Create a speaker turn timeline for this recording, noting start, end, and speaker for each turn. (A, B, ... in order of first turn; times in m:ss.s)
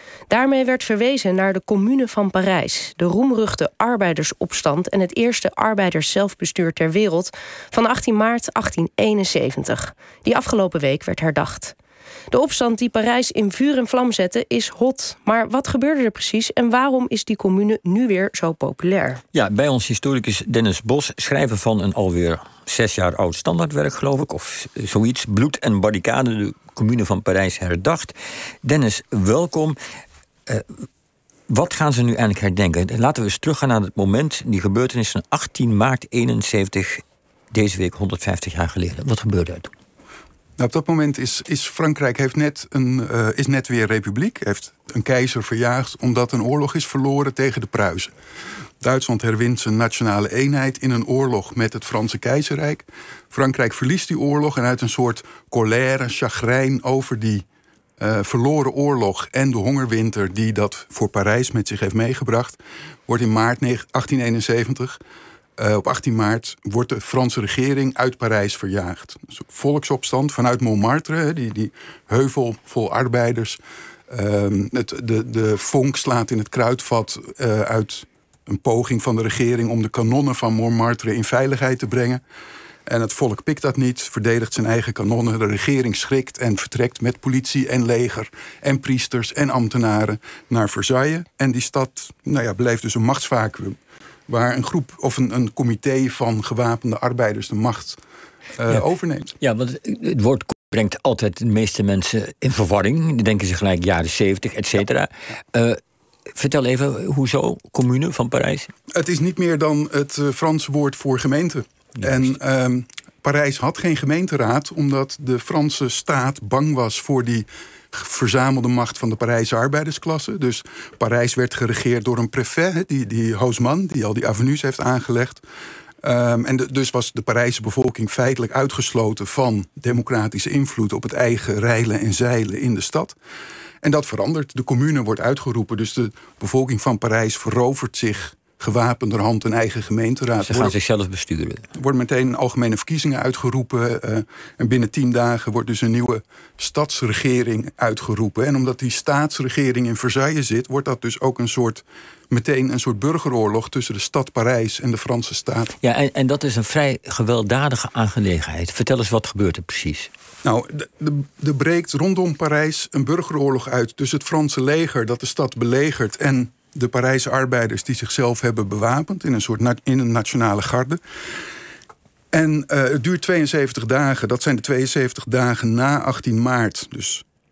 0:00.3-0:11.7 A
0:12.3-0:19.2 A
0:19.3-0:29.8 B
0:31.5-0:39.7 B
0:40.6-0:48.1 C
0:48.8-0:57.4 C
0:58.0-1:05.0 C
1:05.6-1:22.2 C
1:22.8-1:33.8 C
1:34.3-1:38.0 C
1:38.6-1:39.3 C
1:39.4-1:45.8 B
1:46.3-1:48.7 B
1:48.9-2:05.4 C
2:06.0-2:13.2 C
2:13.8-2:20.7 C
2:20.4-2:21.6 B
2:21.7-2:35.7 C
2:35.8-2:40.1 B
2:40.4-2:51.0 C
2:52.3-2:57.2 C